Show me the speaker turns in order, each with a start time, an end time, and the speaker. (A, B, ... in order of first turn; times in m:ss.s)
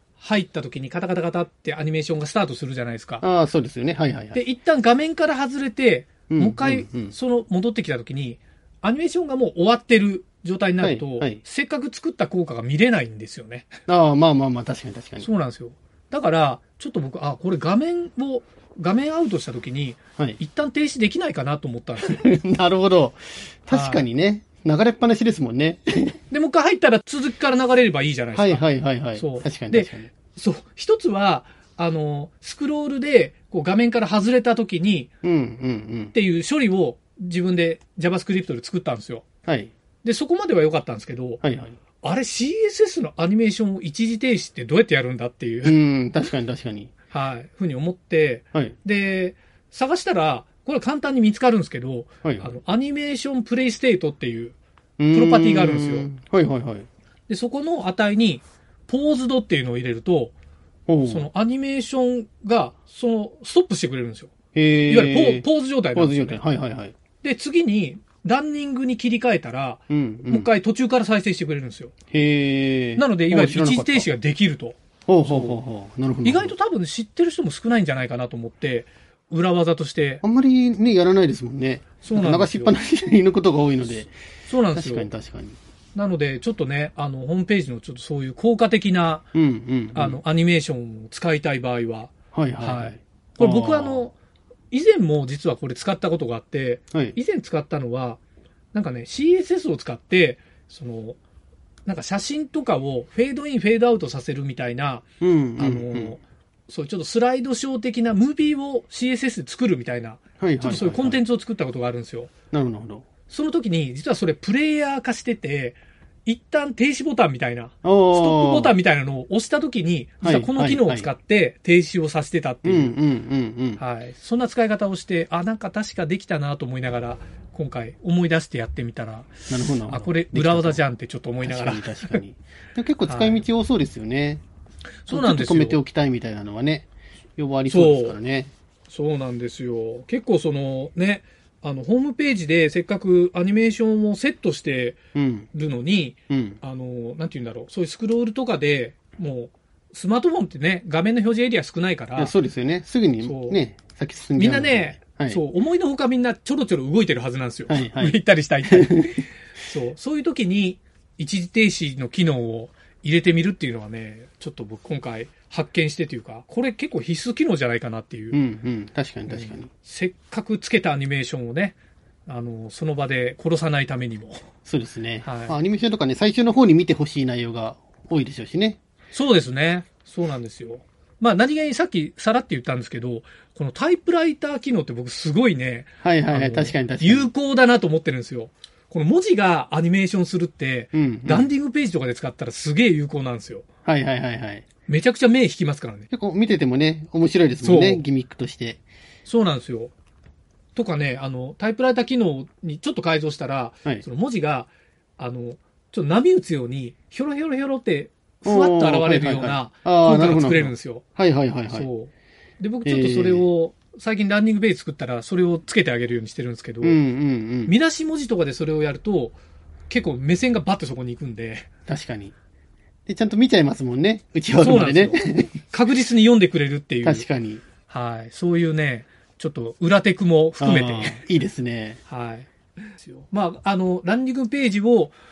0:00.2-0:03.2 A
0:03.2-0:04.4 B
0:04.3-0:13.7 A
0:06.3-0:07.2 B
0:10.8-0:11.4 B
0:13.9-0:15.3 B
0:15.2-0:22.2 A
0:22.0-0:26.2 B
0:23.7-0:24.0 A
0:26.3-0:28.6 A
0:28.3-0:30.1 B
0:29.2-0:35.1 A
0:35.2-0:36.1 B
0:36.1-0:39.2 A
0:39.4-0:39.7 B
0:40.0-0:41.4 A
0:41.4-0:41.8 B
0:42.0-0:45.8 A
0:45.6-0:46.9 B
0:47.1-0:54.6 A
0:52.2-0:52.5 B
0:55.0-0:56.9 B
0:55.1-0:56.1 A
0:57.3-1:00.3 A
1:00.9-1:01.3 B
1:01.0-1:06.4 A
1:04.5-1:06.9 B
1:07.2-1:11.9 A
1:09.9-1:10.5 B
1:12.1-1:14.1 B
1:13.0-1:15.6 A
1:15.1-1:16.5 B
1:16.2-1:20.2 A
1:20.2-1:24.1 B
1:22.0-1:22.8 A
1:24.5-1:25.1 A
1:24.7-1:25.6 B
1:25.9-1:29.3 A
1:29.3-1:30.2 B
1:29.9-1:34.1 A
1:32.3-1:34.1 B
1:34.7-1:38.2 A
1:38.7-1:41.2 A
1:41.8-1:52.3 A
1:45.2-1:46.2 B
1:50.4-1:51.2 B
1:52.5-1:53.0 B
1:53.3-2:03.0 A
1:57.8-1:58.7 B
2:00.2-2:01.1 B
2:02.6-2:03.8 B
2:03.8-2:12.2 A
2:09.5-2:10.8 B
2:11.4-2:14.4 B
2:13.0-2:13.4 A
2:15.0-2:15.8 A
2:15.1-2:18.5 B
2:17.7-2:18.2 A
2:18.9-2:25.0 A
2:25.1-2:25.5 B
2:25.5-2:32.3 A
2:26.3-2:26.6 B
2:32.2-2:35.4 B
2:33.2-2:33.6 A
2:34.4-2:48.4 A
2:37.7-2:39.2 B
2:48.3-2:49.7 B
2:49.3-2:54.4 A
2:54.6-2:58.8 B
2:55.2-2:55.6 A
2:59.1-3:13.6 A
3:06.0-3:07.3 B
3:10.9-3:11.5 B
3:13.8-3:14.6 B
3:14.9-3:16.1 A
3:16.1-3:18.8 B
3:17.6-3:18.0 A
3:19.2-3:19.9 A
3:20.7-3:31.0 A
3:28.4-3:31.9 B
3:31.7-3:37.0 A
3:32.8-3:33.5 B
3:36.8-3:37.7 B
3:37.6-3:39.4 A
3:39.9-3:41.7 A
3:41.9-3:42.3 B
3:43.1-3:45.6 B
3:44.6-3:47.3 A
3:47.0-3:47.6 B
3:47.9-3:51.2 A
3:50.6-3:52.0 B
3:52.1-3:55.1 A